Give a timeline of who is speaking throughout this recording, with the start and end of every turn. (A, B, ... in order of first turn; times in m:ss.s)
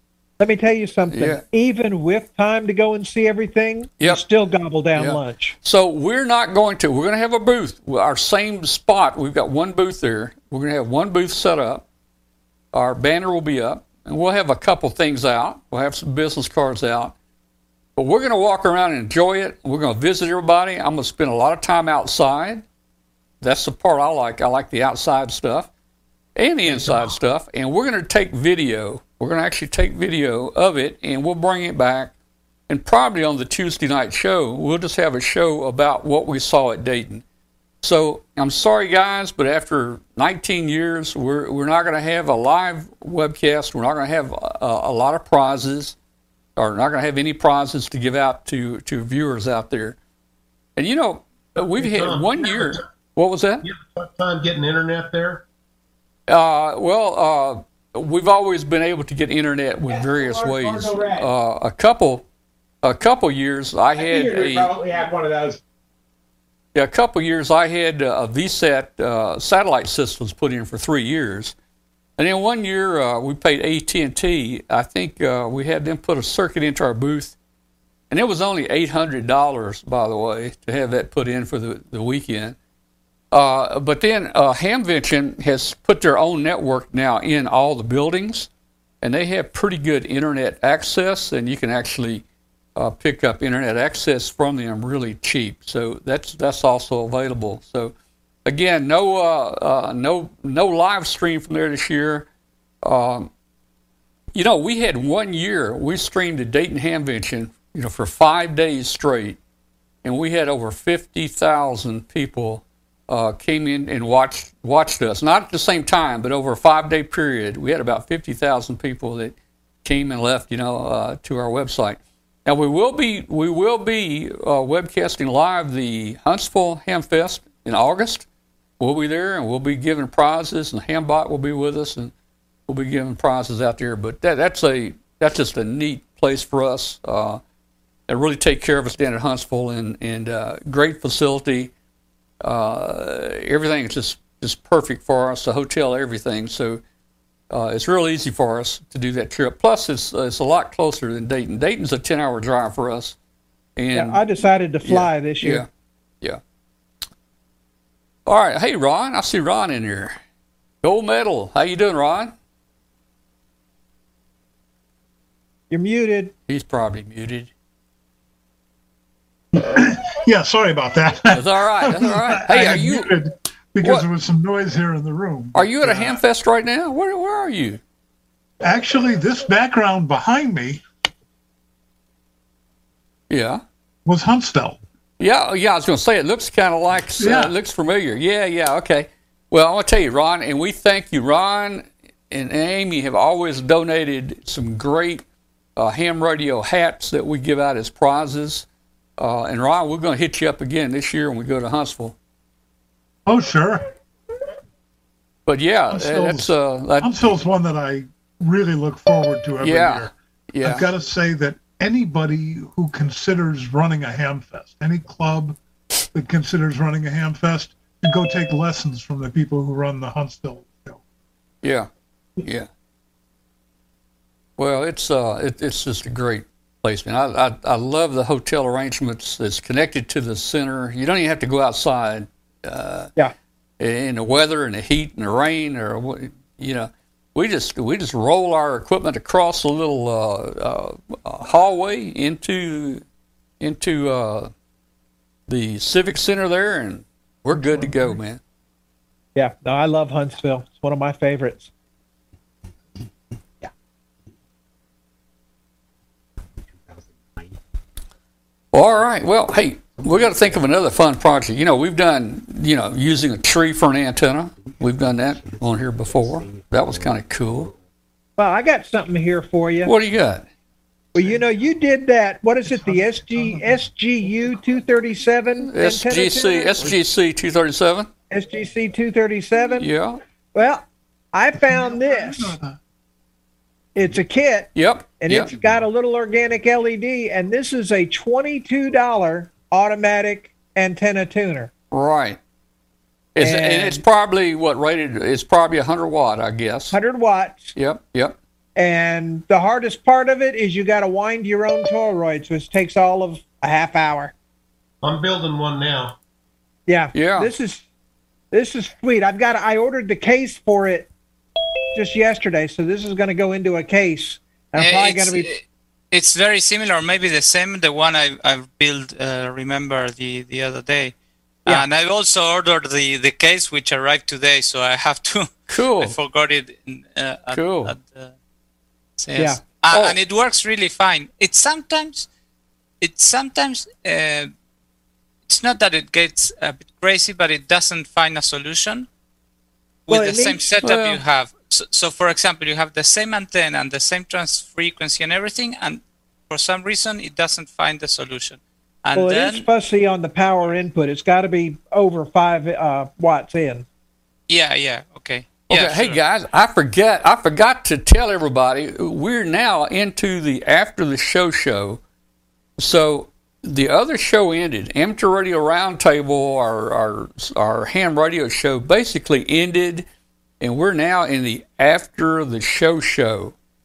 0:00.4-0:05.6 A
0:01.1-0:01.4 B
0:05.0-0:11.8 B
0:12.7-0:17.2 B
0:18.0-0:22.6 B
0:23.4-0:25.7 B
0:26.4-0:32.1 B
0:26.7-0:27.1 A
0:32.7-0:37.2 B
0:37.8-0:46.0 B
0:46.6-0:50.0 B
0:50.8-0:53.6 B
0:51.8-0:52.8 C
0:53.6-0:55.4 C
0:56.3-1:02.2 B
0:59.9-1:01.3 D
1:02.8-1:04.8 B
1:04.0-1:05.6 D
1:06.8-1:11.6 B
1:12.2-1:17.4 B
1:18.1-1:22.6 B
1:23.3-1:28.5 B
1:29.0-1:32.2 B
1:32.8-1:37.9 B
1:38.4-1:42.3 B
1:42.8-1:43.3 B
1:44.3-1:49.4 B
1:50.0-2:08.3 B
2:08.8-2:12.1 B
2:12.7-2:17.4 B
2:18.1-2:21.7 B
2:22.4-2:26.8 B
2:27.5-2:33.2 B
2:33.8-2:34.2 B
2:33.9-2:35.6 A
2:34.8-2:35.7 B
2:38.3-2:40.2 B
2:40.8-2:42.3 B
2:45.7-2:46.3 A
2:46.5-2:47.5 B
2:49.6-2:56.2 D
2:51.3-2:53.2 B
2:53.8-2:54.1 B
2:55.5-2:57.8 B
2:58.6-3:00.8 D
3:03.3-3:03.6 B
3:04.0-3:04.8 D
3:05.2-3:15.2 B
3:07.2-3:07.6 D
3:15.8-3:18.7 B
3:19.2-3:22.2 B
3:23.3-3:23.8 D
3:25.5-3:27.2 B
3:25.9-3:30.1 D
3:29.6-3:30.9 B
3:30.6-3:35.6 D
3:36.1-3:41.0 D
3:41.6-3:41.9 B
3:42.4-3:42.7 B
3:44.6-3:53.1 B
3:53.8-4:03.0 B
4:03.6-4:04.5 B
4:05.5-4:08.4 B
4:07.6-4:08.2 D
4:09.4-4:11.7 A
4:18.7-4:27.7 B
4:28.4-4:29.9 A
4:29.8-4:30.4 B
4:31.2-4:37.0 A
4:32.7-4:33.8 D
4:35.7-4:38.1 B
4:38.3-4:39.9 A
4:39.8-4:40.2 B
4:40.5-4:42.6 A
4:41.6-4:42.8 D
4:44.0-4:51.7 A
4:44.8-4:45.8 B
4:51.9-4:52.4 B
4:53.4-4:57.0 B
4:53.4-4:54.0 A
4:56.9-4:57.8 A
4:57.8-4:58.4 B
4:58.8-5:04.3 A
5:05.0-5:06.2 C
5:06.9-5:07.8 A
5:07.1-5:07.5 B
5:08.5-5:11.1 A
5:11.9-5:15.5 A
5:14.8-5:21.2 E
5:21.7-5:28.3 E
5:25.7-5:26.2 B
5:27.5-5:27.9 B
5:29.2-5:32.3 E
5:29.9-5:30.2 B
5:33.0-5:34.5 E
5:35.5-5:39.1 E
5:40.1-5:49.7 E
5:40.1-5:40.8 A
5:40.8-5:41.2 B
5:49.2-5:53.9 A
5:54.5-5:56.2 E
5:55.7-6:02.0 B
6:02.8-6:10.1 B
6:10.6-6:13.6 B